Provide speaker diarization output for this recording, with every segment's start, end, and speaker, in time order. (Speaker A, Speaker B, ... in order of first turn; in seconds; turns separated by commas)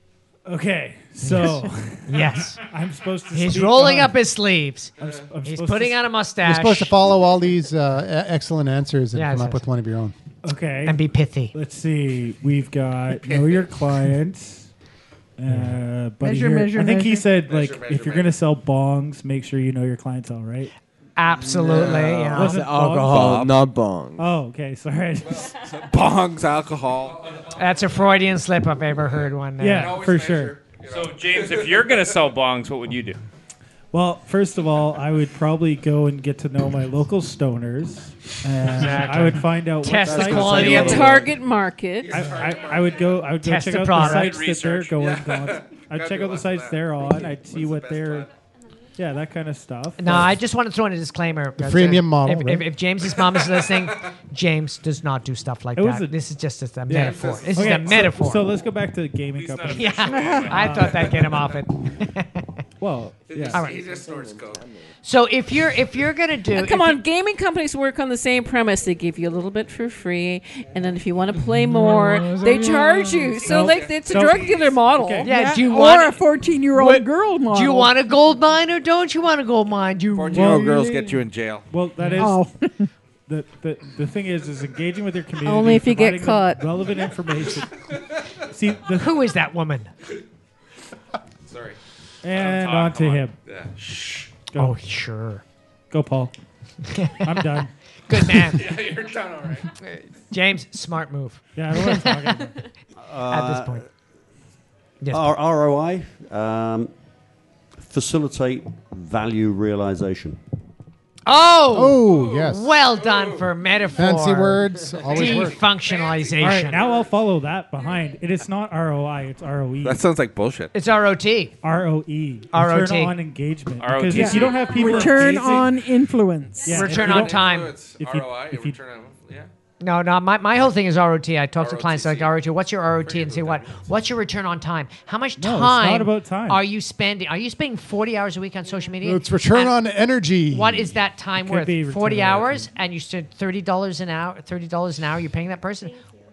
Speaker A: 0.5-4.2, Speaker B: 1.2-2.6, Speaker B: 3.3-6.9, Speaker A: 5.0-6.0, Speaker C: 6.4-10.2, Speaker B: 9.1-9.6, Speaker A: 10.4-14.7, Speaker B: 10.8-11.5, Speaker D: 13.2-13.7, Speaker A: 15.4-20.7, Speaker E: 16.2-17.3, Speaker D: 17.4-18.3, Speaker B: 21.2-22.6, Speaker F: 21.4-24.4, Speaker A: 22.3-23.6, Speaker D: 23.1-23.4, Speaker A: 24.2-25.6, Speaker D: 25.3-27.4, Speaker B: 27.5-30.0, Speaker A: 29.6-30.6, Speaker D: 29.7-31.9, Speaker G: 30.8-33.2, Speaker A: 33.9-41.3, Speaker B: 38.7-41.3, Speaker H: 40.0-41.2, Speaker I: 40.8-42.2, Speaker D: 42.0-43.3, Speaker A: 42.1-48.3, Speaker B: 43.4-44.4, Speaker G: 44.1-44.9, Speaker D: 45.0-48.3, Speaker A: 49.0-50.4, Speaker B: 50.0-58.5, Speaker C: 51.6-52.8, Speaker A: 55.8-56.2, Speaker A: 56.9-61.3, Speaker D: 56.9-58.0, Speaker G: 59.3-60.7, Speaker B: 59.7-62.5, Speaker A: 62.8-63.6, Speaker D: 63.3-64.6, Speaker B: 63.5-63.9, Speaker F: 63.8-64.9, Speaker B: 65.0-67.0, Speaker I: 66.5-75.3, Speaker B: 71.8-72.9, Speaker D: 73.3-74.8, Speaker A: 73.4-75.3, Speaker B: 75.2-76.2, Speaker E: 75.3-78.0, Speaker B: 76.7-80.7, Speaker D: 80.1-81.7, Speaker A: 80.3-82.5, Speaker B: 82.0-82.3, Speaker E: 82.2-82.9, Speaker A: 83.3-87.8, Speaker I: 85.4-86.6, Speaker A: 88.5-89.1, Speaker B: 89.0-89.9, Speaker D: 91.4-91.8, Speaker A: 92.2-93.3, Speaker D: 92.3-94.3, Speaker A: 94.5-94.8, Speaker B: 94.5-95.4, Speaker A: 95.9-96.3, Speaker B: 96.9-98.8, Speaker A: 97.2-97.7, Speaker D: 98.5-99.7, Speaker B: 99.9-102.5, Speaker A: 101.5-102.5, Speaker H: 103.0-103.8, Speaker B: 103.3-103.8, Speaker B: 105.0-105.3, Speaker H: 105.1-106.9, Speaker H: 107.8-110.4, Speaker B: 111.3-116.8, Speaker C: 111.7-112.7, Speaker C: 113.9-115.6, Speaker D: 115.9-117.0, Speaker A: 116.4-120.0, Speaker D: 119.8-120.7, Speaker B: 120.7-121.5, Speaker A: 121.6-125.8, Speaker B: 122.5-123.2, Speaker G: 123.8-125.0, Speaker E: 124.1-126.8, Speaker A: 126.6-128.8, Speaker B: 126.7-127.7, Speaker D: 126.9-129.5, Speaker B: 129.8-139.8, Speaker D: 131.6-132.3, Speaker D: 133.0-133.8, Speaker A: 135.4-136.6, Speaker C: 139.0-140.9, Speaker B: 140.5-146.0, Speaker A: 141.3-142.7